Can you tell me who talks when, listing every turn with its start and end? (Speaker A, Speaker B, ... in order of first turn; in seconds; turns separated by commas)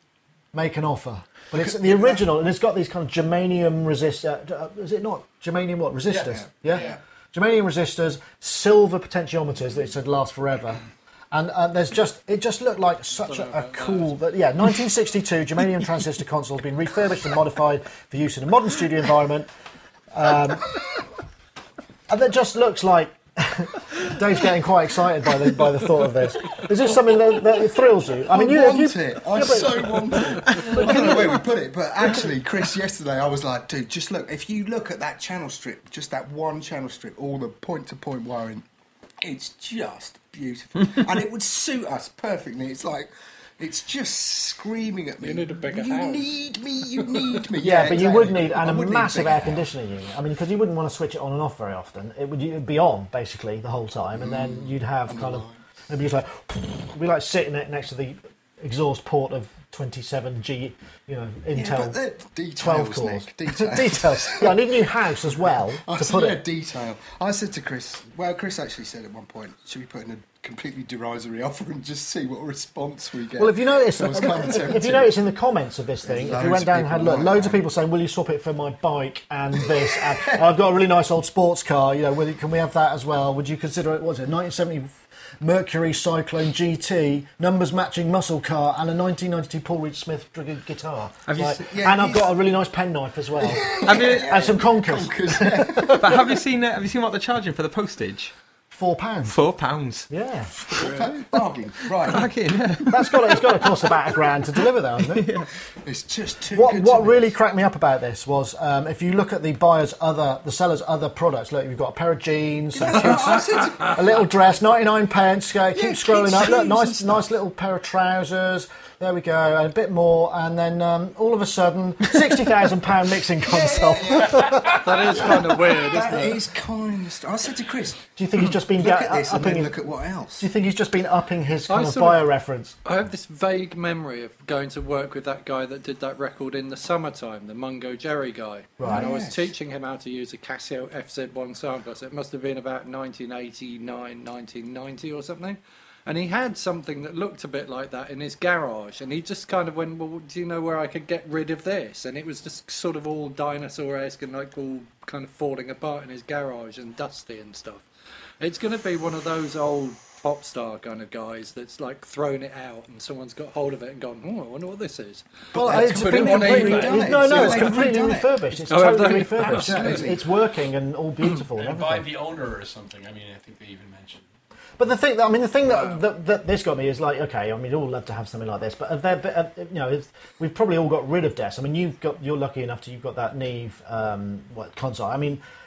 Speaker A: 0.5-10.8, Speaker B: 1.5-2.2, Speaker C: 6.1-7.0, Speaker B: 6.2-7.0, Speaker A: 11.3-19.5, Speaker D: 13.2-14.2, Speaker A: 20.1-20.9, Speaker A: 22.1-31.4, Speaker B: 28.2-38.7, Speaker B: 39.2-49.7, Speaker D: 45.2-46.4, Speaker A: 47.6-62.0, Speaker B: 54.1-55.6, Speaker B: 61.5-75.1, Speaker A: 62.6-66.4, Speaker A: 73.4-96.2, Speaker B: 76.0-77.6, Speaker B: 79.6-80.5, Speaker E: 91.3-91.6, Speaker B: 91.4-92.3, Speaker B: 93.4-96.4, Speaker E: 93.8-94.5, Speaker E: 95.9-98.3, Speaker A: 98.7-99.4, Speaker E: 99.3-100.1, Speaker A: 100.1-101.0, Speaker B: 100.7-102.3, Speaker E: 102.0-104.2, Speaker A: 102.9-105.3, Speaker E: 105.0-105.5, Speaker B: 105.8-107.3, Speaker A: 106.5-125.3, Speaker B: 112.7-114.3, Speaker B: 115.7-117.3, Speaker B: 123.4-130.5, Speaker D: 124.8-126.4, Speaker A: 128.2-129.8, Speaker A: 130.4-132.8, Speaker D: 131.7-132.3, Speaker D: 132.8-157.9, Speaker A: 138.8-139.1, Speaker B: 138.8-139.5, Speaker D: 158.4-167.9, Speaker B: 165.5-170.2, Speaker A: 165.5-172.1, Speaker D: 168.7-170.2, Speaker C: 171.6-174.3, Speaker A: 174.8-185.4